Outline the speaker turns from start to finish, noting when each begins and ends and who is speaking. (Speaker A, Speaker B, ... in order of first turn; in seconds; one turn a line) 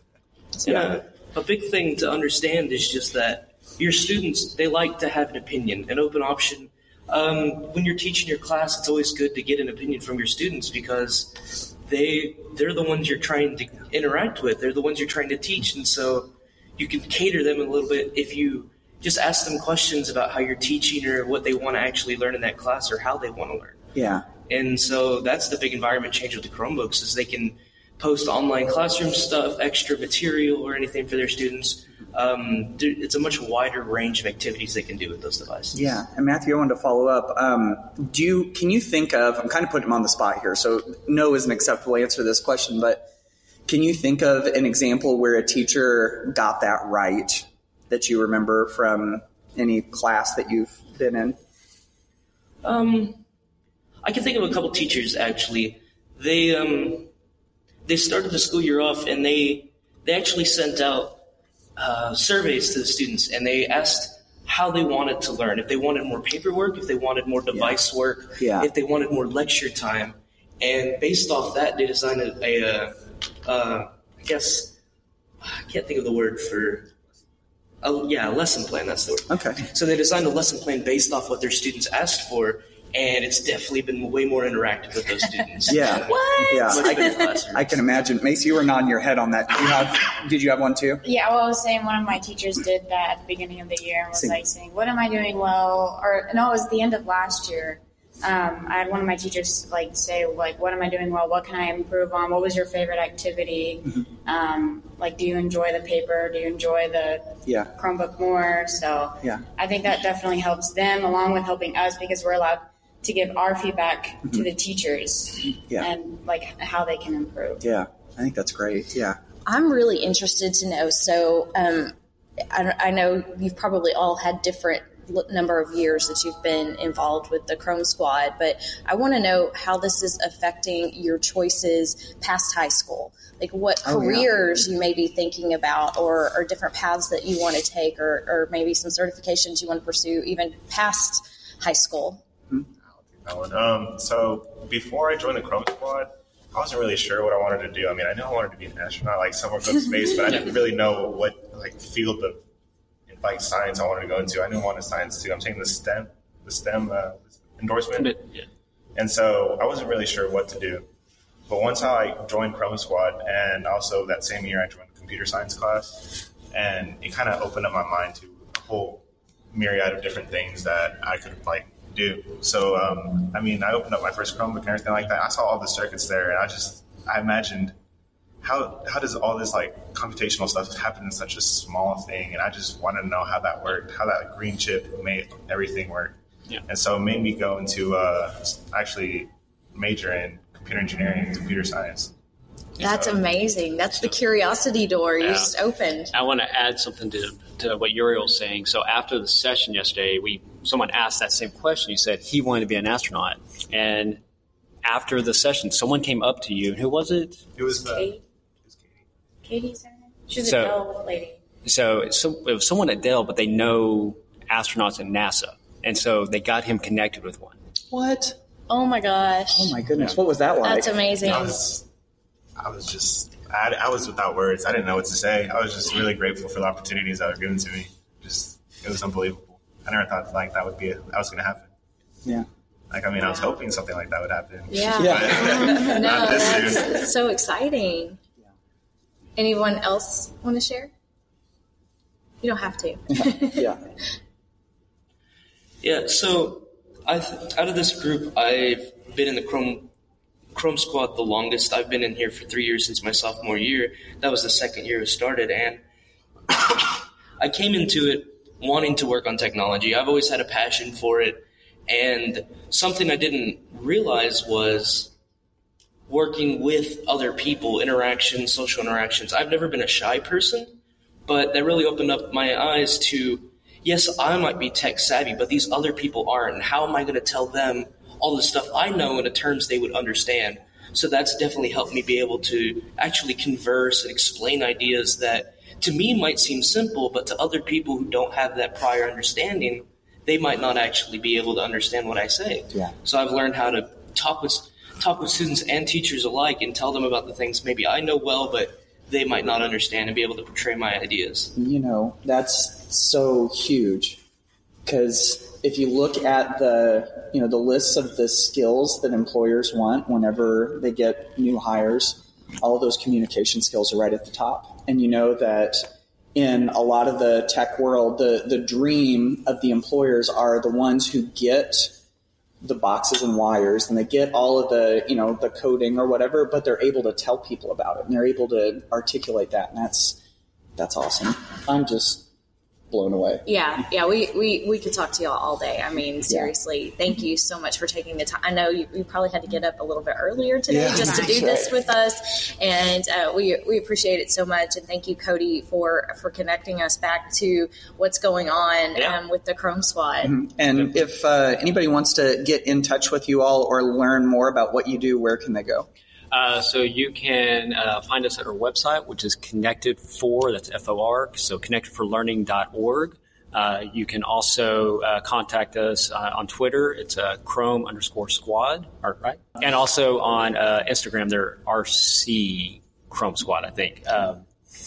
Speaker A: 0.6-23.8
Speaker B: 23.9-24.2
Speaker A: 24.4-35.8
Speaker B: 35.7-43.1
Speaker B: 43.7-51.4
Speaker A: 52.6-53.2
Speaker A: 54.0-57.1
Speaker A: 57.9-61.2
Speaker A: 61.8-74.7
Speaker B: 67.5-67.8
Speaker B: 68.4-68.7
Speaker A: 75.4-76.9
Speaker A: 77.8-87.8
Speaker B: 79.3-79.6
Speaker B: 85.7-91.0
Speaker C: 86.1-87.1
Speaker D: 91.0-117.6
Speaker B: 107.5-107.7
Speaker B: 117.6-119.2
Speaker C: 119.5-121.9
Speaker C: 122.5-142.2
Speaker B: 133.8-134.3
Speaker E: 143.1-152.4
Speaker E: 153.1-158.2
Speaker F: 157.9-158.5
Speaker E: 158.9-160.8
Speaker E: 161.5-177.7
Speaker E: 178.4-186.2
Speaker E: 186.7-192.1
Speaker C: 192.8-196.1
Speaker E: 192.8-193.2
Speaker F: 195.2-195.5
Speaker F: 196.1-204.2
Speaker F: 204.8-207.4
Speaker E: 207.6-208.2
Speaker D: 207.7-208.2
Speaker E: 208.7-209.0
Speaker D: 209.4-211.4
Speaker F: 210.4-210.8
Speaker F: 211.6-217.6
Speaker B: 217.9-218.3
Speaker C: 218.7-219.7
Speaker B: 219.5-221.1
Speaker C: 220.6-221.5
Speaker E: 221.2-221.8
Speaker E: 222.6-231.7
Speaker E: 232.9-237.1
Speaker C: 233.1-233.6
Speaker C: 234.7-238.2
Speaker B: 235.0-235.8
Speaker C: 239.4-240.9
Speaker C: 242.4-243.7
Speaker B: 243.1-243.8
Speaker A: 245.8-249.9
Speaker A: 250.5-255.8
Speaker A: 256.5-256.8
Speaker A: 257.4-265.1
Speaker A: 266.1-301.5
Speaker B: 301.6-304.2
Speaker B: 304.9-321.9
Speaker B: 322.6-330.2
Speaker B: 330.8-332.2
Speaker B: 332.9-333.4
Speaker C: 333.4-350.3
Speaker B: 336.3-336.5
Speaker B: 340.7-341.7
Speaker D: 340.9-341.4
Speaker F: 348.9-349.2
Speaker B: 350.2-355.9
Speaker F: 356.3-374.4